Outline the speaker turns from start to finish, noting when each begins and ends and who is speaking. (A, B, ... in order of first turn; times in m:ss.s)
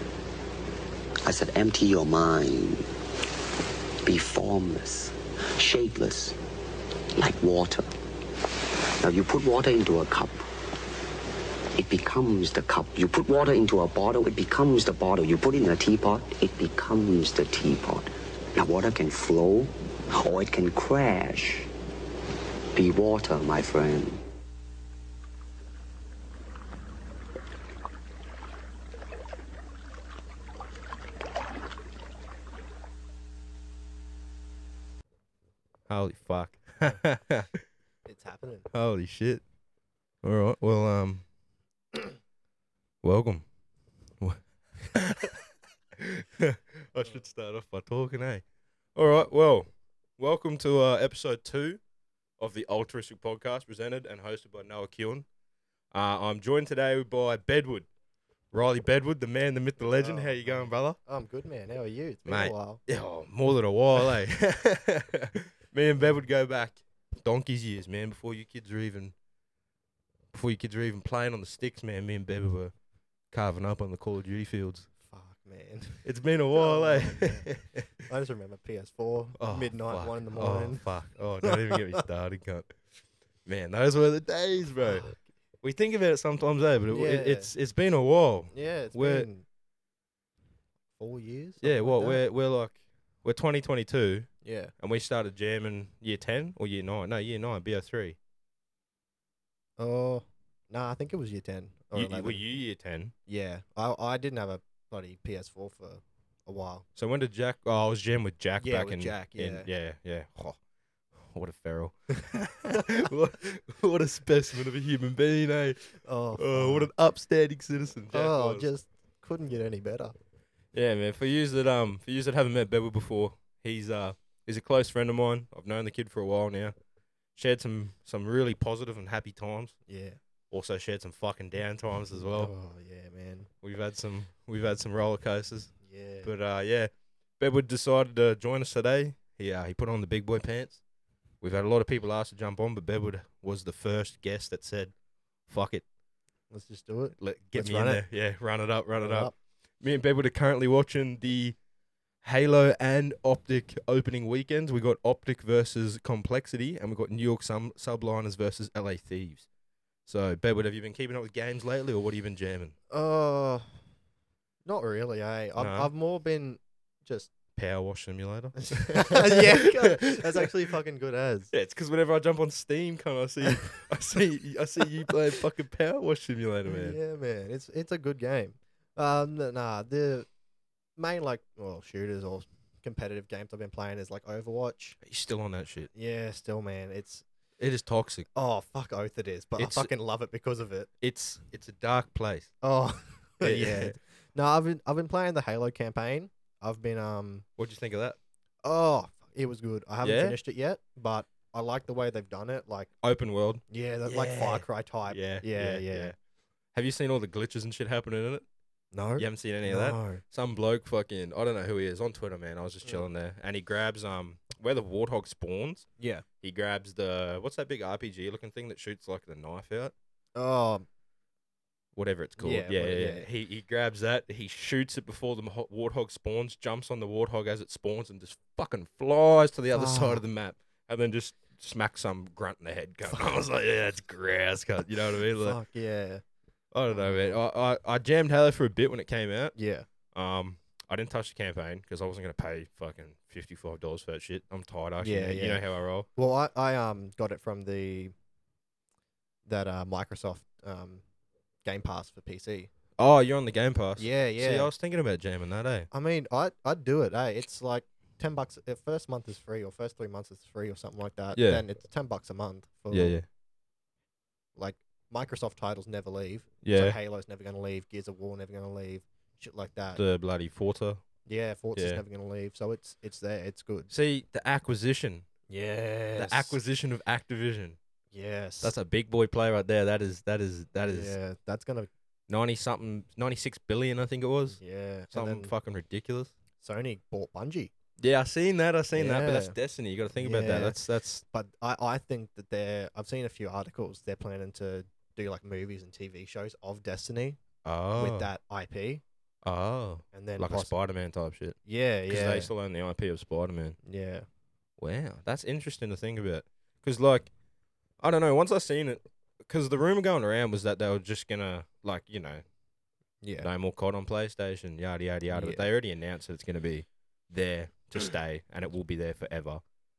0:01.2-0:02.9 A
0:04.0-0:06.4 A
0:07.2-0:07.9 A
0:09.0-0:10.5 A
0:11.8-0:21.7 A
0:22.8-0:24.2 A
0:35.9-0:37.6 B
0:38.0-0:38.7 C
0:38.7-0:39.4 B
0:40.2-0:41.2 B
0:43.0-0:43.4 B
0:44.2-0:45.4 B
0:46.0-0:48.4 B
0:49.0-0:51.8 B
0:52.4-0:55.3 B
0:55.9-0:57.9 B
0:58.5-1:01.0 B
0:59.8-1:02.8 C
1:02.3-1:09.1 B
1:10.3-1:12.7 B
1:13.3-1:14.9 B
1:15.0-1:17.5 C
1:16.0-1:18.1 B
1:18.0-1:22.0 C
1:19.4-1:22.8 B
1:23.4-1:29.3 B
1:24.8-1:25.2 C
1:26.9-1:27.5 C
1:28.5-1:29.4 C
1:30.9-1:32.2 C
1:31.6-1:38.2 B
1:34.4-1:34.7 C
1:39.8-1:42.4 C
1:41.9-1:43.1 B
1:43.3-1:46.9 C
1:47.0-1:50.6 B
1:48.6-1:49.7 C
1:51.2-1:58.7 B
1:52.7-1:52.9 C
1:56.0-1:56.9 C
1:58.1-2:00.2 C
2:00.7-2:06.8 B
2:07.4-2:09.8 B
2:09.9-2:10.2 C
2:10.5-2:12.5 B
2:12.3-2:13.5 C
2:13.6-2:20.8 B
2:15.8-2:16.3 C
2:21.4-2:24.9 B
2:25.5-2:25.8 B
2:26.5-2:28.0 C
2:27.2-2:31.6 B
2:29.0-2:29.3 C
2:32.2-2:39.5 B
2:40.1-2:42.8 B
2:42.9-2:43.8 C
2:44.6-2:47.3 C
2:45.6-2:45.9 B
2:47.6-2:50.5 B
2:48.6-2:51.5 C
2:51.5-2:57.0 B
2:53.5-2:53.7 C
2:56.6-3:00.3 C
3:01.0-3:05.0 C
3:05.0-3:05.9 B
3:05.9-3:07.2 C
3:07.6-3:08.3 B
3:08.3-3:10.9 C
3:09.6-3:09.9 B
3:11.0-3:12.5 B
3:12.6-3:17.4 C
3:13.4-3:14.0 B
3:17.6-3:18.2 B
3:18.6-3:22.9 C
3:20.0-3:20.4 B
3:23.0-3:26.1 B
3:23.7-3:26.1 C
3:26.7-3:28.4 B
3:28.9-3:30.2 C
3:29.2-3:35.9 B
3:36.0-3:36.2 C
3:36.4-3:39.9 B
3:40.4-3:40.9 C
3:41.9-3:55.6 B
3:42.4-3:43.3 C
3:49.7-3:50.2 C
3:55.2-3:56.2 C
3:56.7-3:59.5 B
3:56.9-3:57.4 C
3:59.5-3:59.9 C
4:00.1-4:06.1 B
4:05.0-4:05.6 C
4:06.2-4:08.1 C
4:09.4-4:11.0 C
4:11.6-4:12.7 C
4:13.0-4:15.9 B
4:14.0-4:14.7 C
4:15.9-4:23.2 C
4:21.3-4:21.6 B
4:22.9-4:23.2 B
4:24.6-4:30.0 C
4:26.6-4:27.0 B
4:29.9-4:31.0 B
4:31.2-4:33.9 C
4:31.8-4:32.0 B
4:33.9-4:35.3 B
4:35.5-4:36.6 C
4:36.2-4:37.8 B
4:38.1-4:38.8 C
4:38.6-4:41.2 B
4:40.9-4:41.9 C
4:42.3-4:44.6 B
4:44.5-4:45.5 C
4:45.1-4:46.3 B
4:46.6-4:47.7 C
4:48.0-4:51.2 B
4:48.9-4:49.6 C
4:50.2-4:50.8 C
4:51.3-4:57.4 C
4:57.6-4:58.3 B
4:58.0-4:59.0 C
4:59.4-5:01.6 B
5:00.1-5:00.8 C
5:01.6-5:02.5 C
5:02.1-5:03.8 B
5:03.8-5:04.3 C
5:04.8-5:07.3 B
5:08.0-5:12.4 B
5:13.2-5:13.5 C
5:13.4-5:19.6 B
5:15.3-5:15.7 C